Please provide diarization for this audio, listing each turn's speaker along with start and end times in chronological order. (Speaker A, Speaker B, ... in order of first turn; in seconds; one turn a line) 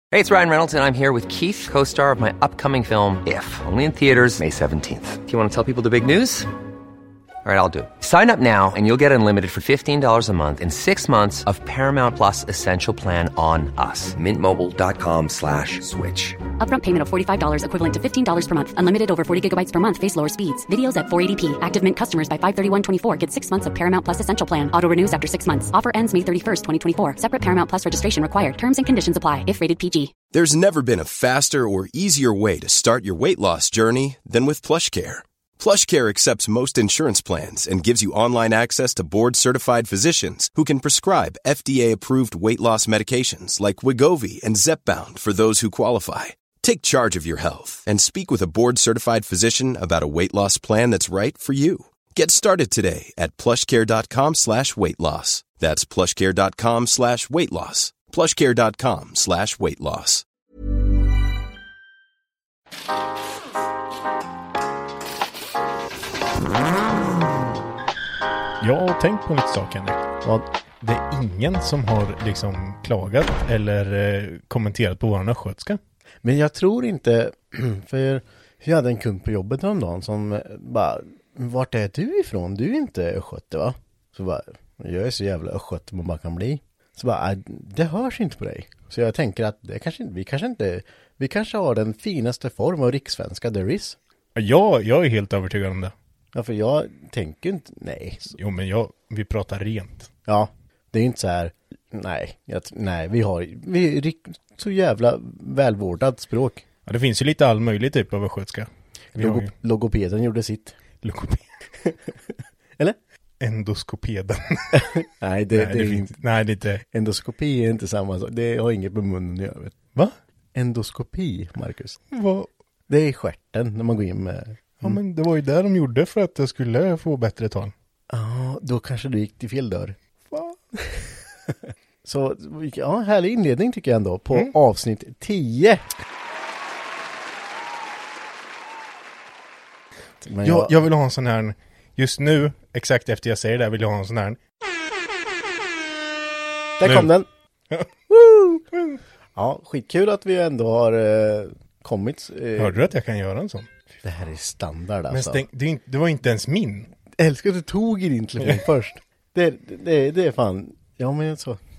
Speaker A: 0.1-6.5
Speaker A: 7.4-16.4
Speaker B: 16.6-30.1
Speaker C: 30.3-60.2
Speaker D: 68.6-70.0
Speaker D: 70.8-75.8
Speaker E: 76.2-94.0
Speaker D: 94.3-95.9
Speaker E: 96.3-98.4
Speaker D: 98.4-100.1
Speaker E: 100.3-106.6
Speaker D: 106.8-109.5
Speaker E: 109.1-110.8
Speaker D: 111.0-111.4
Speaker E: 111.8-113.0
Speaker D: 113.4-115.0
Speaker E: 114.8-116.1
Speaker D: 115.5-116.8
Speaker E: 116.9-119.8
Speaker E: 120.5-122.0
Speaker D: 122.1-122.5
Speaker E: 122.9-125.0
Speaker D: 124.8-127.7
Speaker E: 128.1-135.9
Speaker E: 140.2-140.7
Speaker D: 140.4-144.4
Speaker E: 146.8-147.3
Speaker D: 146.8-147.1
Speaker E: 148.1-148.7
Speaker E: 149.3-152.9
Speaker D: 152.6-153.8
Speaker E: 154.0-155.4
Speaker D: 155.1-156.9
Speaker E: 157.2-161.6